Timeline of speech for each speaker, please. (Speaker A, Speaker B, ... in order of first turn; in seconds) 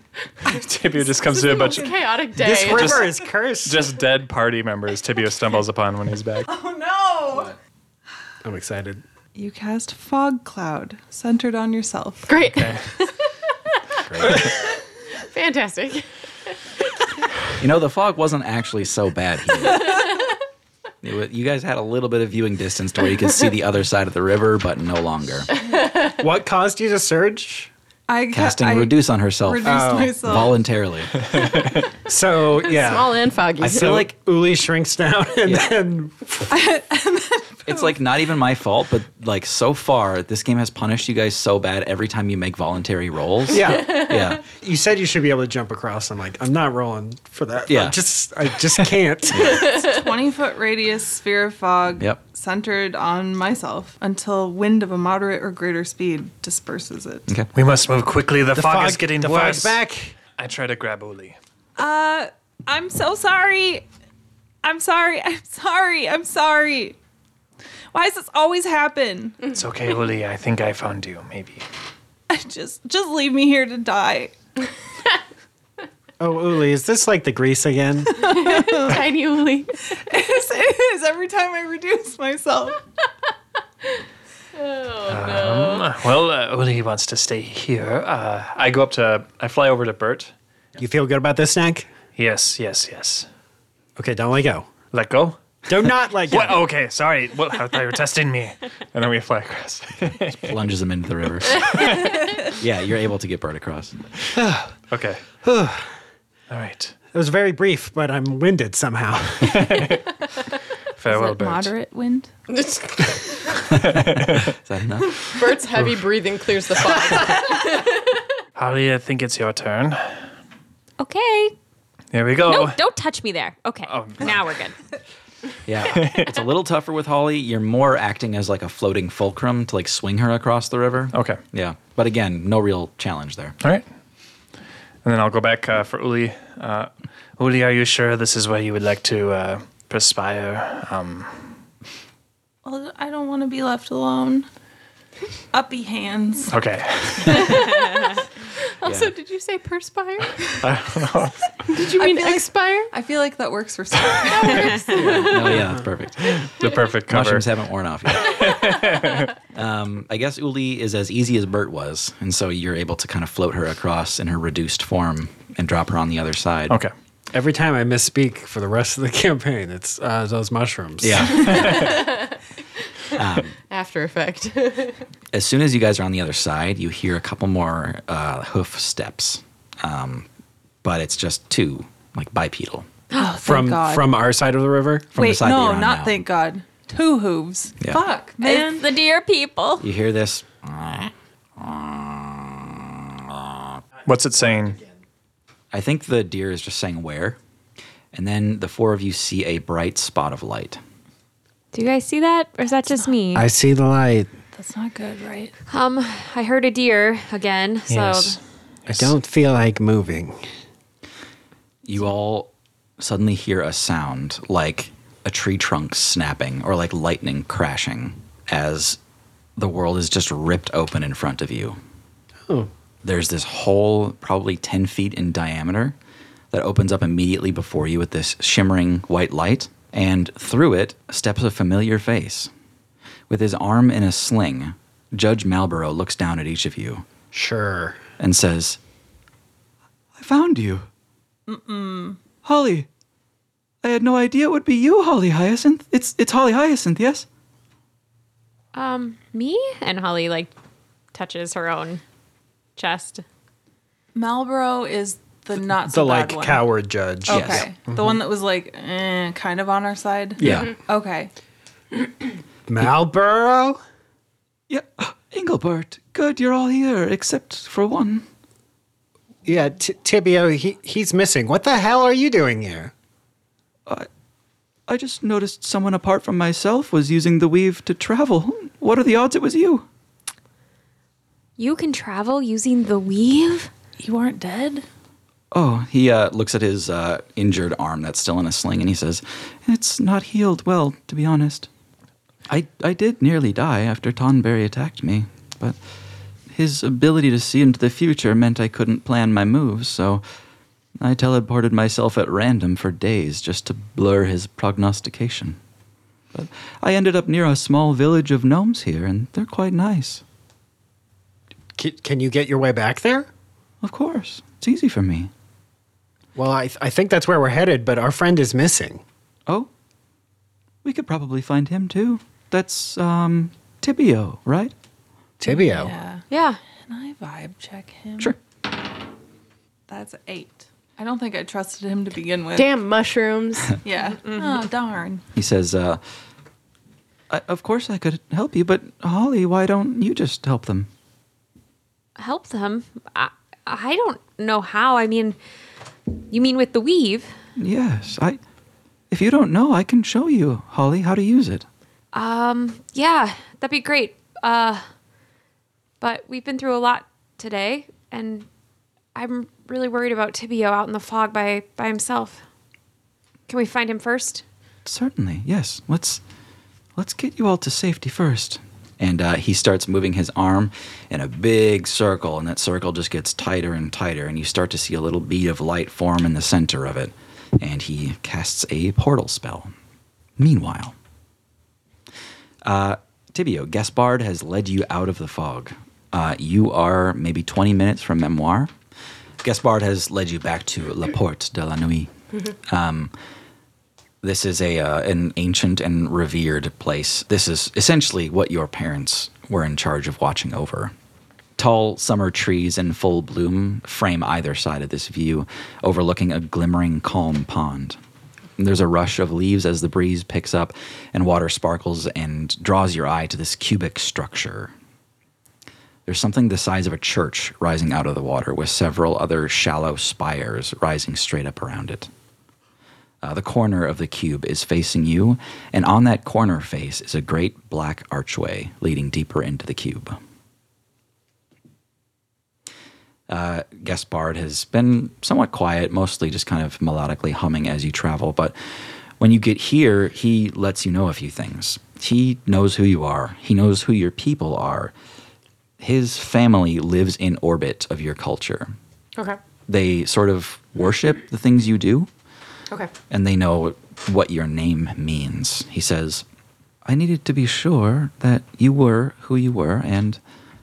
Speaker A: 0.5-1.6, 6.5-7.6, 9.3-12.5, 28.1-30.6, 36.5-37.9, 49.4-57.3, 61.8-63.8, 64.6-67.0, 67.9-69.4, 72.3-74.3, 78.1-79.1, 79.9-82.8, 111.1-112.3, 142.6-144.5, 145.5-146.5, 152.0-155.1, 183.1-184.2, 185.1-188.8, 204.5-205.5, 241.5-242.2, 254.1-256.6, 257.3-261.3, 284.0-284.9, 325.4-326.2, 326.9-328.3, 329.9-332.7, 333.8-335.2
Speaker B: 0.5-1.9, 2.7-3.0, 3.6-6.5, 31.3-31.6, 57.5-59.8, 60.4-61.4, 69.5-71.6, 85.1-90.3, 92.2-93.3, 94.9-95.4, 96.3-100.6, 101.5-102.2, 104.9-105.2, 106.5-106.9, 109.4-110.1, 111.0-111.7, 113.8-114.5, 118.5-120.3, 122.1-122.8, 123.8-124.4, 125.9-126.3, 131.1-131.4, 135.0-141.5, 146.5-147.8, 150.6-151.5, 156.3-157.5, 158.1-159.3, 171.4-172.0, 194.0-194.8, 207.9-209.0
Speaker C: 1.5-3.1, 12.3-13.1, 14.2-14.7, 15.2-16.5, 25.7-26.1, 32.6-34.0, 78.4-79.8, 84.5-85.9, 112.5-113.5, 115.2-118.0, 147.4-150.6, 151.7-152.9, 154.4-155.5, 171.7-172.4, 173.7-175.0, 332.6-333.8
Speaker D: 2.4-4.0, 8.4-9.0, 26.1-27.7, 29.6-30.2, 32.0-36.5, 43.5-49.7, 58.5-60.1, 76.2-78.3, 90.8-91.9, 94.0-94.7, 95.7-96.6, 104.3-104.7, 105.4-105.9, 107.1-109.9, 167.3-171.6, 183.4-185.1, 203.3-204.3, 208.9-210.5, 237.3-238.0, 255.9-258.1, 262.7-263.8, 269.4-272.9, 311.8-313.3, 316.4-319.0, 325.4-325.9
Speaker E: 17.6-20.0, 21.0-25.5, 28.3-31.4, 33.6-34.1, 35.4-35.7, 37.6-44.4, 47.7-48.0, 49.3-49.7, 100.4-102.0, 102.5-104.0, 113.7-115.4, 125.6-133.6, 148.8-149.1, 154.9-156.5, 157.1-158.8, 159.5-166.8, 171.0-172.0, 173.1-173.6, 175.3-180.3, 180.8-182.9, 185.1-186.2, 189.8-193.6, 195.7-197.4, 198.1-200.8, 211.8-219.0, 219.6-221.8, 223.0-225.9, 226.5-232.5, 233.3-237.0, 238.2-238.8, 240.2-240.9, 242.4-242.9, 243.8-247.3, 257.3-257.6, 260.4-260.7, 264.7-268.2, 274.9-279.9, 285.5-291.7, 292.5-295.8, 296.5-300.2, 301.0-305.6, 306.3-310.2, 313.8-315.3, 320.8-324.7, 335.3-336.0, 337.3-340.9, 347.6-348.4, 349.1-351.6, 364.9-366.2, 367.0-379.7, 380.4-380.9, 382.6-388.7, 389.4-392.1, 392.7-393.1, 394.2-400.9, 401.6-408.0, 408.6-414.7, 416.1-422.1, 423.2-430.2, 433.3-438.5, 439.2-444.9, 445.8-448.7, 449.7-452.1, 453.1-456.2, 456.8-460.2
Speaker F: 121.0-121.5, 122.4-124.8, 188.4-189.8, 201.7-203.5, 205.7-208.4, 248.7-250.5, 251.1-252.0, 252.8-253.2, 281.6-283.7, 326.3-326.6, 342.2-345.4, 346.3-347.3, 352.1-354.8, 356.0-358.5, 359.1-362.4, 363.5-364.4